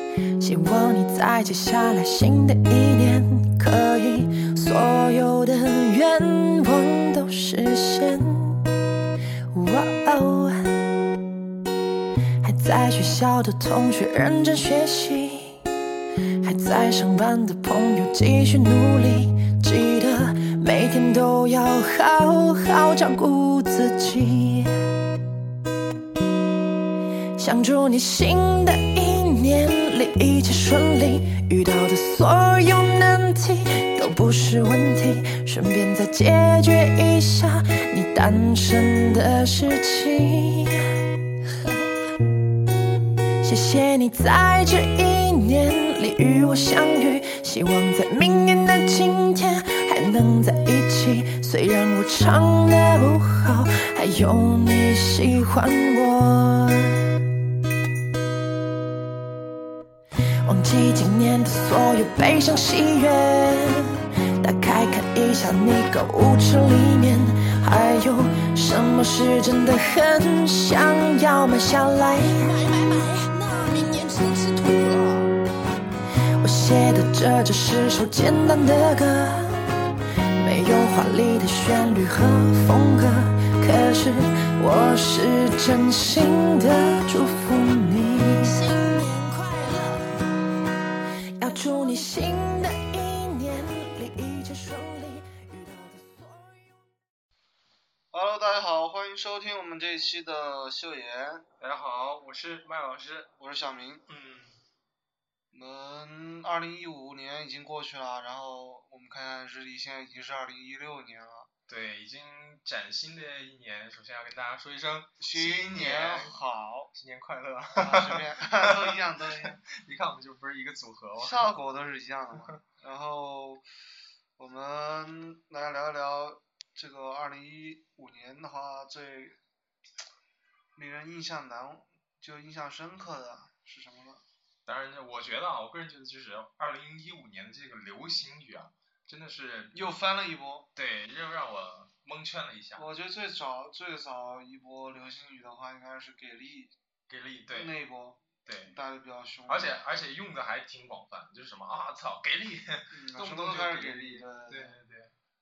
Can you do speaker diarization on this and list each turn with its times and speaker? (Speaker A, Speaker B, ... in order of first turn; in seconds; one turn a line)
Speaker A: 0.4-8.7
Speaker A: 9.5-10.8
Speaker A: 12.4-15.7
Speaker A: 16.4-24.7
Speaker A: 27.4-40.8
Speaker A: 43.4-57.2
Speaker A: 60.4-72.5
Speaker B: 72.4-75.3
Speaker A: 76.4-88.7
Speaker B: 88.4-90.2
Speaker A: 91.4-96.8
Speaker C: 98.1-101.5
Speaker D: 101.6-103.3
Speaker C: 103.4-104.0
Speaker D: 104.1-104.6
Speaker C: 105.5-111.5
Speaker D: 111.7-116.3
Speaker C: 115.2-116.9
Speaker D: 116.9-121.4
Speaker C: 117.8-119.6
Speaker C: 121.2-123.6
Speaker C: 124.4-129.4
Speaker C: 130.8-134.2
Speaker D: 134.7-139.9
Speaker C: 139.7-140.7
Speaker D: 140.8-142.9
Speaker C: 142.8-146.7
Speaker D: 147.1-147.7
Speaker C: 147.5-149.8
Speaker D: 148.4-148.8
Speaker D: 149.5-155.1
Speaker C: 152.9-154.8